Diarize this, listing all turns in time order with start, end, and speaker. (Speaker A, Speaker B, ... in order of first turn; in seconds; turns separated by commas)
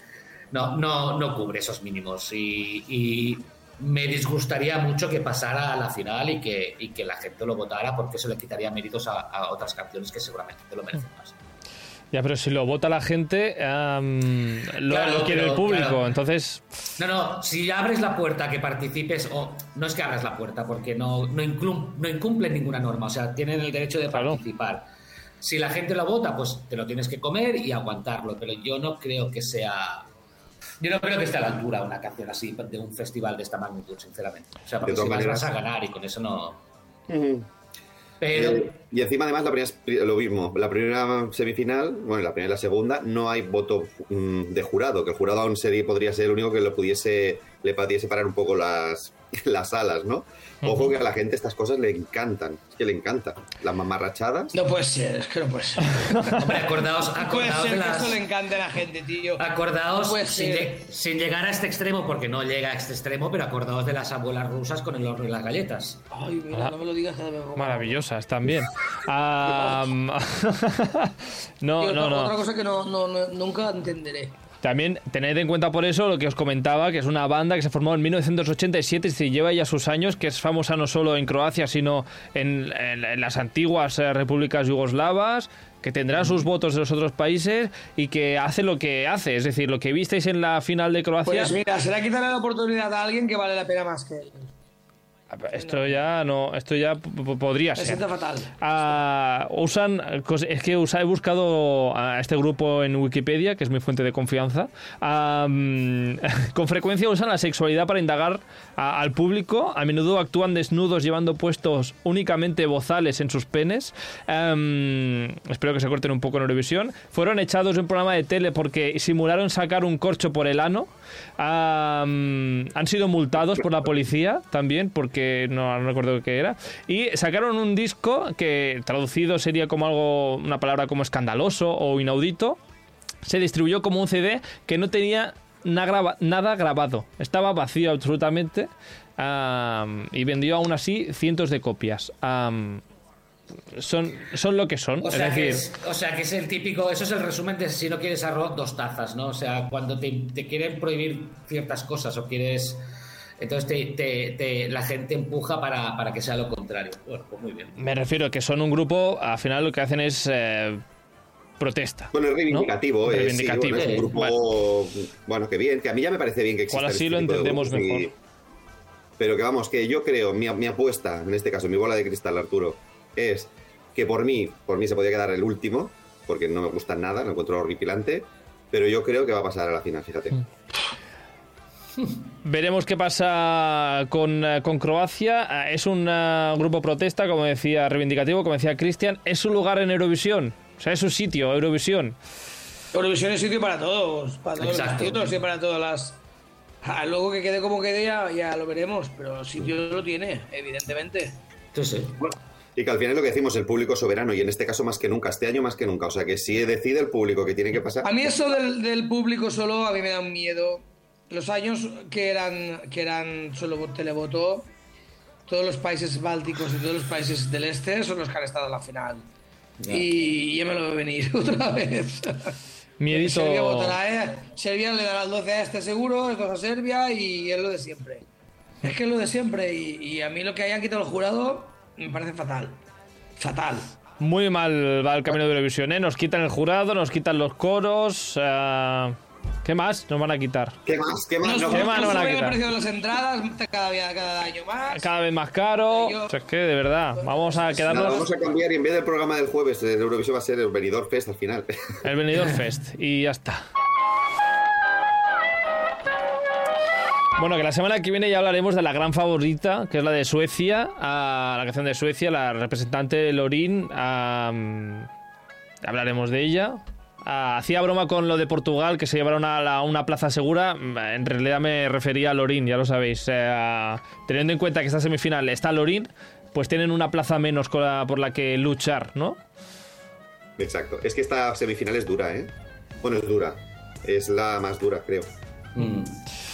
Speaker A: 0.5-11.4, Speaker B: 12.1-16.6, Speaker A: 14.8-16.0, Speaker A: 17.0-24.9, Speaker B: 24.1-24.4, Speaker A: 25.4-30.1, Speaker A: 30.8-36.6, Speaker C: 34.8-35.5, Speaker C: 37.1-37.5, Speaker A: 38.2-38.7, Speaker C: 38.3-54.6, Speaker B: 50.6-50.9, Speaker D: 54.5-59.5, Speaker A: 56.3-58.2, Speaker A: 59.4-66.0, Speaker D: 60.0-60.8, Speaker D: 66.1-68.0, Speaker B: 67.6-72.3, Speaker D: 69.5-69.9, Speaker D: 71.8-74.3, Speaker B: 74.6-91.5, Speaker D: 91.2-94.5, Speaker B: 95.3-98.0, Speaker D: 95.5-96.0, Speaker D: 97.8-98.5, Speaker B: 98.6-132.6, Speaker B: 133.2-142.8, Speaker B: 143.7-145.6, Speaker A: 145.0-152.8, Speaker A: 153.4-157.9, Speaker B: 157.8-160.8, Speaker B: 161.6-164.3, Speaker C: 162.1-168.1, Speaker A: 163.7-164.1, Speaker B: 166.7-168.1, Speaker C: 169.2-180.4, Speaker B: 182.4-192.2, Speaker D: 192.9-196.2, Speaker A: 194.6-195.3, Speaker D: 196.8-201.4, Speaker A: 201.7-202.2, Speaker C: 202.2-208.3, Speaker D: 208.0-214.7, Speaker D: 215.5-219.2, Speaker A: 219.8-220.1, Speaker D: 219.9-222.5, Speaker B: 223.0-224.0, Speaker D: 223.1-228.2, Speaker D: 228.8-232.8, Speaker D: 233.4-233.9, Speaker B: 234.2-240.8, Speaker C: 240.8-242.3, Speaker D: 241.4-245.1, Speaker B: 241.7-242.6, Speaker B: 244.9-248.2, Speaker D: 245.9-246.4, Speaker D: 247.2-248.3, Speaker C: 247.9-252.0, Speaker B: 252.0-253.7, Speaker B: 257.4-265.1, Speaker B: 265.8-279.4, Speaker C: 280.6-282.5, Speaker C: 283.0-285.3, Speaker A: 285.7-286.2